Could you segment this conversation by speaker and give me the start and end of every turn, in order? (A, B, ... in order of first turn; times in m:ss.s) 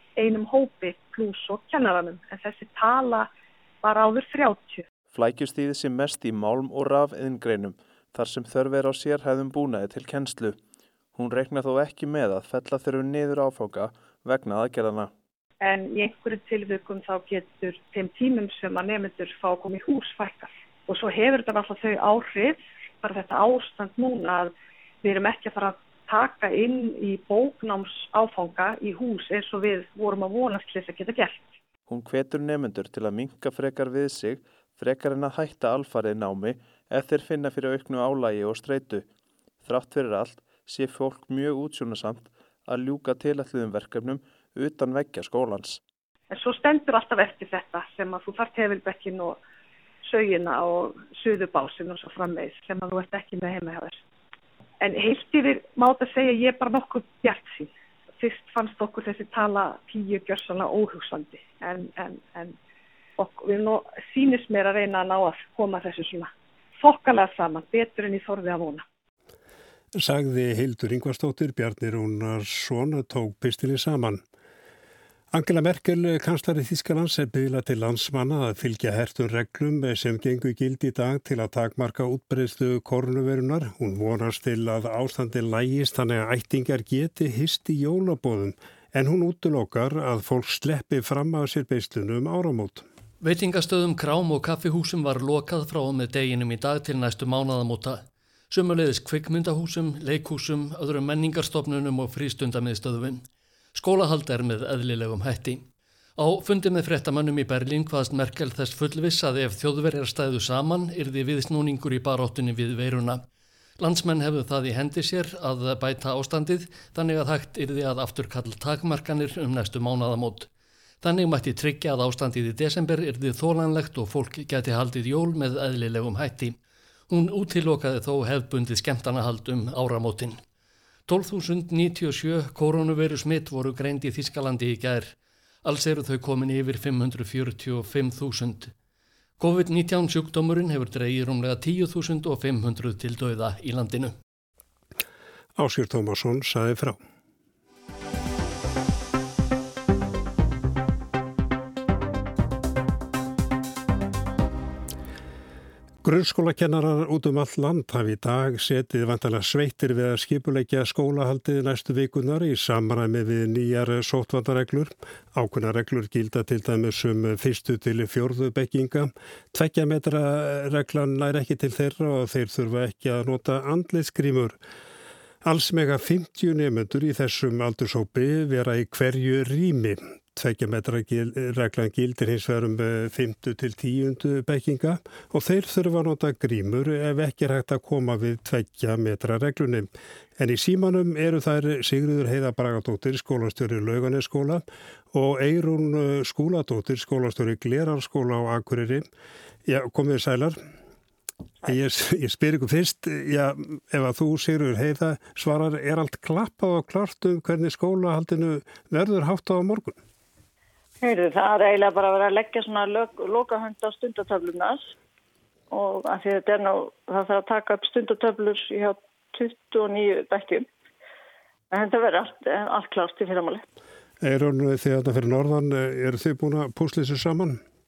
0:00.2-0:03.3 A
0:03.8-0:04.9 A
0:05.1-0:10.6 B
0:11.2-0:15.1 B
0:15.6-0:24.5 A
0:25.0-0:31.5 A
0:31.9-0:39.1 B
0:39.6-0:45.8 B
0:46.3-0:49.4 A
0:50.1-0:54.0 A
0:54.8-1:02.6 A
1:03.2-1:08.8 A
1:10.0-1:14.2 C
1:15.3-1:32.8 C
1:33.2-1:45.6 D
1:46.2-1:53.3 D
1:53.8-2:00.5 D
2:01.0-2:06.6 D
2:07.1-2:10.4 D
2:11.1-2:18.7 D
2:19.4-2:24.1 D
2:25.6-2:27.0 C
2:36.0-2:54.6 C
2:55.4-3:19.1 C
3:19.7-3:20.6 C
3:21.6-3:30.0 C
3:31.0-3:34.9 E
3:35.7-3:40.7 E
3:41.7-3:43.6 E
3:44.2-3:47.6 C